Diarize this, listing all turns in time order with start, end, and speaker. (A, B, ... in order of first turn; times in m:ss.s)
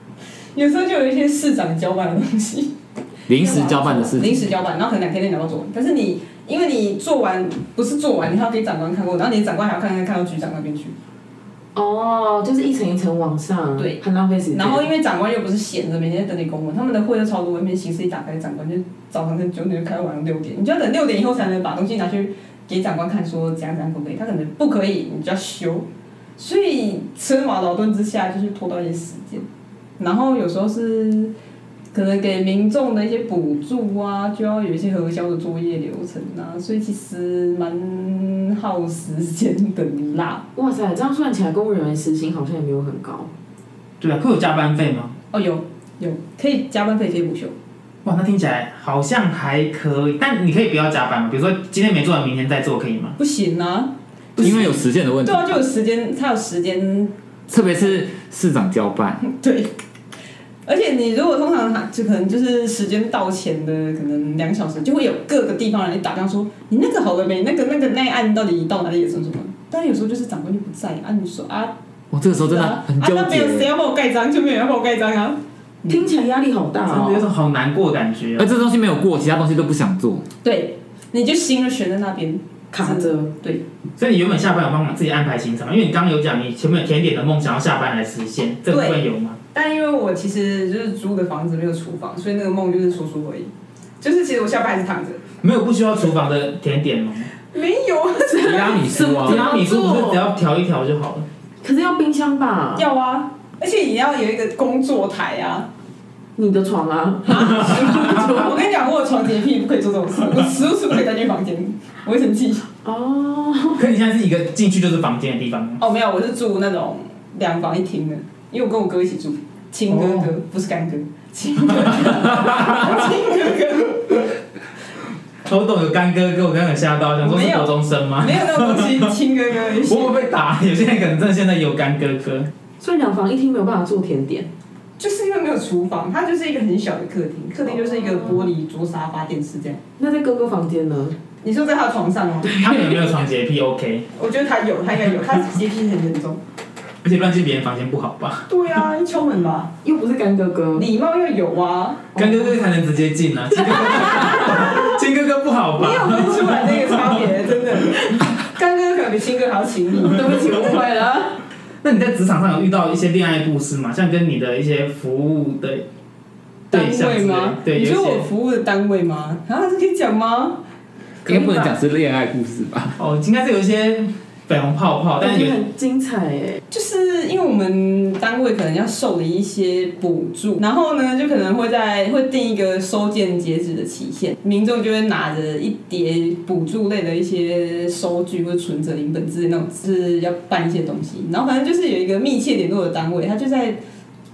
0:00.5-0:02.7 A
0:03.3-0:04.5 B
0:03.3-0:10.9 A
0:11.7-0:14.8 C
0:14.5-0:29.4 A
0:30.0-0:31.3 A
0:31.9-0:40.4 A
0:40.5-0:43.3 C
0:44.0-0:45.2 D
0:45.3-0:47.5 A
0:48.0-0:53.2 D
0:53.2-0:58.0 A
0:54.4-0:55.6 B
0:54.4-0:54.6 D
0:57.5-0:59.2 B
0:59.2-0:59.7 A
1:00.6-1:11.7 A
1:12.1-1:13.7 B
1:12.3-1:16.0 A
1:15.9-1:17.2 C
1:16.8-1:18.5 D
1:18.4-1:20.2 B
1:20.4-1:23.6 A
1:22.7-1:23.3 C
1:24.0-1:29.4 D
1:28.7-1:35.2 A
1:35.4-1:37.3 D
1:37.5-1:39.0 A
1:38.3-1:40.2 C
1:38.4-1:39.5 B
1:39.2-1:41.2 D
1:41.6-1:42.9 C
1:42.8-1:45.7 A
1:46.4-1:48.7 C
1:47.3-1:52.7 A
1:52.8-1:53.9 C
1:53.8-1:55.8 D
1:55.8-2:04.2 A
1:59.9-2:00.3 D
2:05.4-2:09.1 D
2:07.2-2:10.3 A
2:09.7-2:12.5 D
2:12.8-2:14.5 C
2:15.0-2:19.8 A
2:18.1-2:18.4 C
2:20.0-2:21.2 C
2:21.4-2:22.6 A
2:22.5-2:24.1 D
2:22.6-2:23.0 C
2:24.2-2:26.4 A
2:27.0-2:28.5 D
2:28.5-2:29.7 A
2:29.8-2:30.9 C
2:30.7-2:32.1 A
2:32.1-2:37.2 D
2:33.7-2:34.6 C
2:35.8-2:40.8 A
2:40.0-2:41.4 C
2:41.8-2:45.8 D
2:46.7-2:50.6 A
2:46.7-2:48.3 D
2:51.2-2:51.8 A
2:51.2-2:53.0 B
2:53.0-2:55.6 D
2:55.2-2:56.6 C
2:56.7-3:13.8 A